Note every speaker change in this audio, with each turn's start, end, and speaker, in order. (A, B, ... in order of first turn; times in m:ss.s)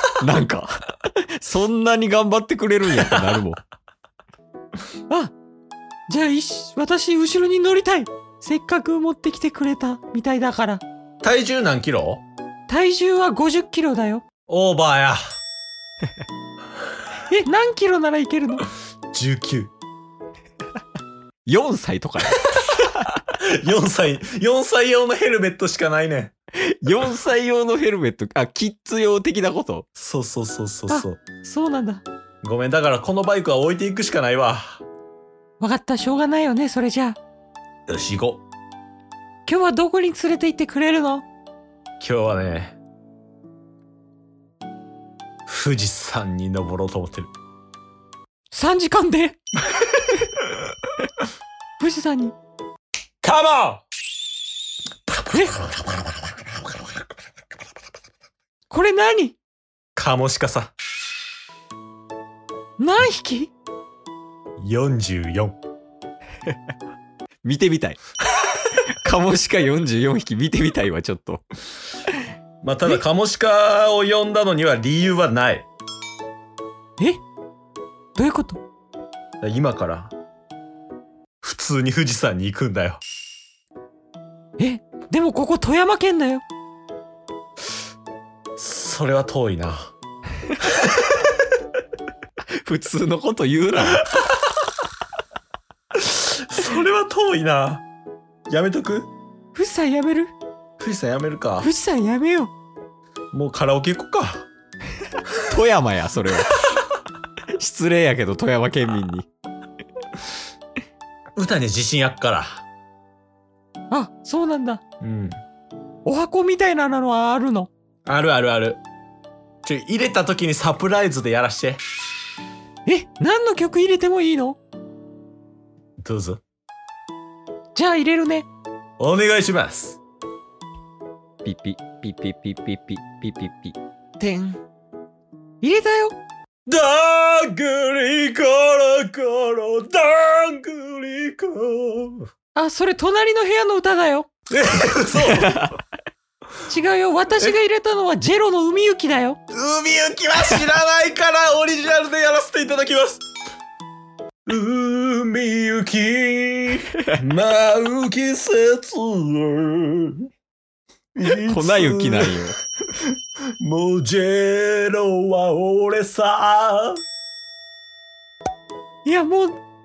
0:00.2-0:03.6 A
0:03.0-0:03.4 B
0:06.1-0:10.8 C
0:11.2-0:12.2 B
0:12.7-0:14.2 C
0:14.5-0:15.2 B
0:17.3-0:18.7 C
0:19.1-0:19.7 B
0:21.4-0:23.1 A
0:23.3-0:26.3 B
0:26.7-0:29.9 A
0:30.0-0:31.2 B
0:30.9-0:32.0 C
0:32.4-0:34.8 B
0:35.6-0:37.2 C
0:37.9-0:38.4 B
0:39.5-0:41.2 C
0:42.0-0:42.8 B
0:45.5-0:47.3 B
0:48.5-0:49.4 C
0:51.8-0:52.3 C
0:53.2-0:53.8 B
0:55.3-0:55.6 C
0:55.6-0:56.1 B
0:58.7-0:59.3 C
1:00.0-1:00.7 B
1:02.8-1:03.5 C
1:04.6-1:05.6 B
1:07.4-1:08.0 A
1:08.7-1:11.4 A
1:12.6-1:15.7 B
1:18.2-1:18.6 C
1:19.4-1:20.1 B
1:21.4-1:23.0 B
1:24.6-1:26.4 C
1:28.6-1:29.9 B
1:32.6-1:34.0 A
1:35.9-1:37.8 B
1:38.5-1:39.1 B
1:39.5-1:40.3 C
1:40.8-1:41.7 B
1:41.6-1:42.5 C
1:43.3-1:44.5 B
1:45.5-1:46.6 A
1:47.6-1:49.3 A
1:51.4-1:52.6 B
1:53.9-1:54.8 C
1:55.0-1:55.4 B
1:56.0-1:57.7 C
1:58.0-1:58.8 B
1:59.6-2:01.8 B
2:02.8-2:04.6 C
2:06.0-2:06.4 B
2:07.7-2:08.5 C
2:09.0-2:10.0 B
2:11.4-2:14.6 A
2:15.6-2:16.2 C
2:16.6-2:22.3 B
2:22.5-2:24.3 C
2:24.5-2:25.6 B
2:25.2-2:25.7 A
2:26.7-2:29.4 C
2:29.5-2:33.2 B
2:34.4-2:40.2 B
2:41.1-2:42.4 B
2:41.4-2:42.6 A
2:43.0-2:47.0 B
2:49.0-2:49.6 C